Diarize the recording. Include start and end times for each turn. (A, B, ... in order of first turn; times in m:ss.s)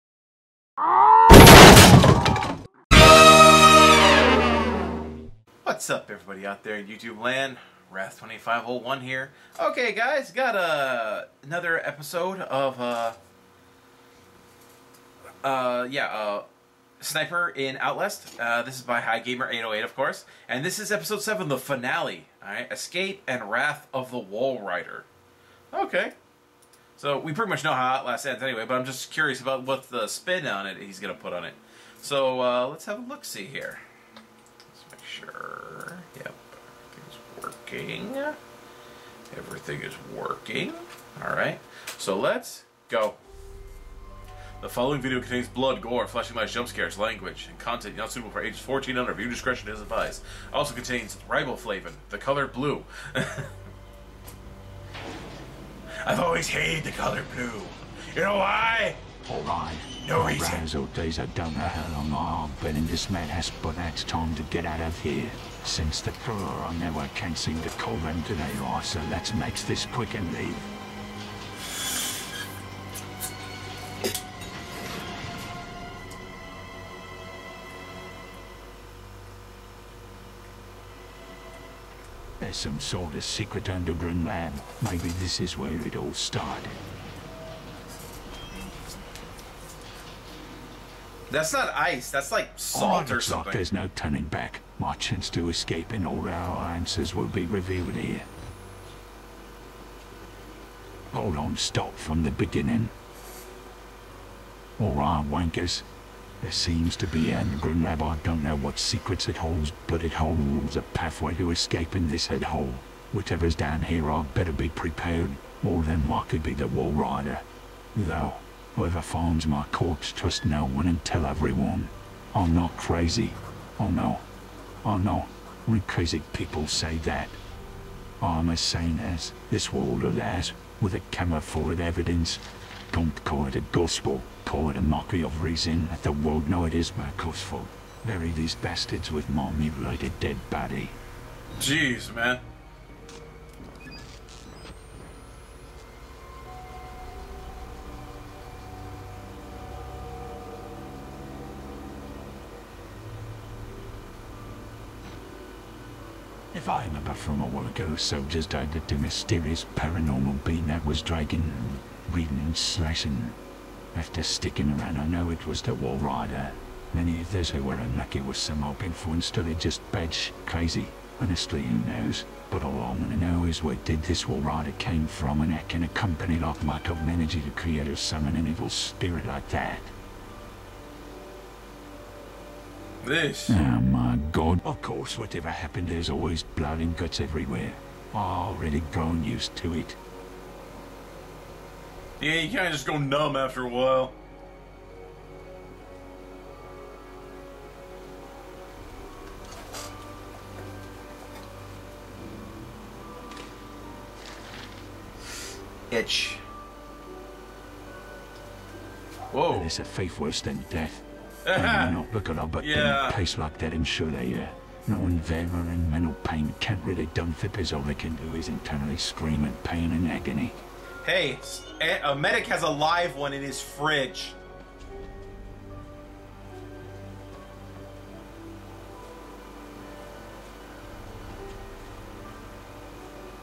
0:05.6-0:13.2 A
0:15.4-0:16.5 A
0:17.0-0:25.1 A
0:25.7-0:26.1 A
0:27.0-0:33.8 A
0:34.7-0:38.4 A
0:39.3-0:43.2 A
0:44.6-0:53.5 A
0:56.0-0:59.0 A
0:59.2-1:10.7 B
1:00.0-1:00.6 A
1:22.4-1:26.8 B
1:31.3-1:33.6 A
1:32.7-1:38.3 B
1:41.1-1:42.9 B
1:44.8-1:45.9 B
1:46.4-2:04.2 B
2:04.8-2:07.4 B
2:08.2-2:21.0 B
2:21.6-2:22.4 A
2:36.5-2:43.4 B
2:43.9-2:59.9 B
3:03.0-3:03.6 A
3:03.5-3:10.0 B
3:12.2-3:14.2 A
3:25.9-3:26.4 A
3:29.3-3:29.7 A
3:29.5-3:40.6 B
3:31.4-3:32.0 A
3:32.6-3:33.2 A
3:41.0-3:44.4 A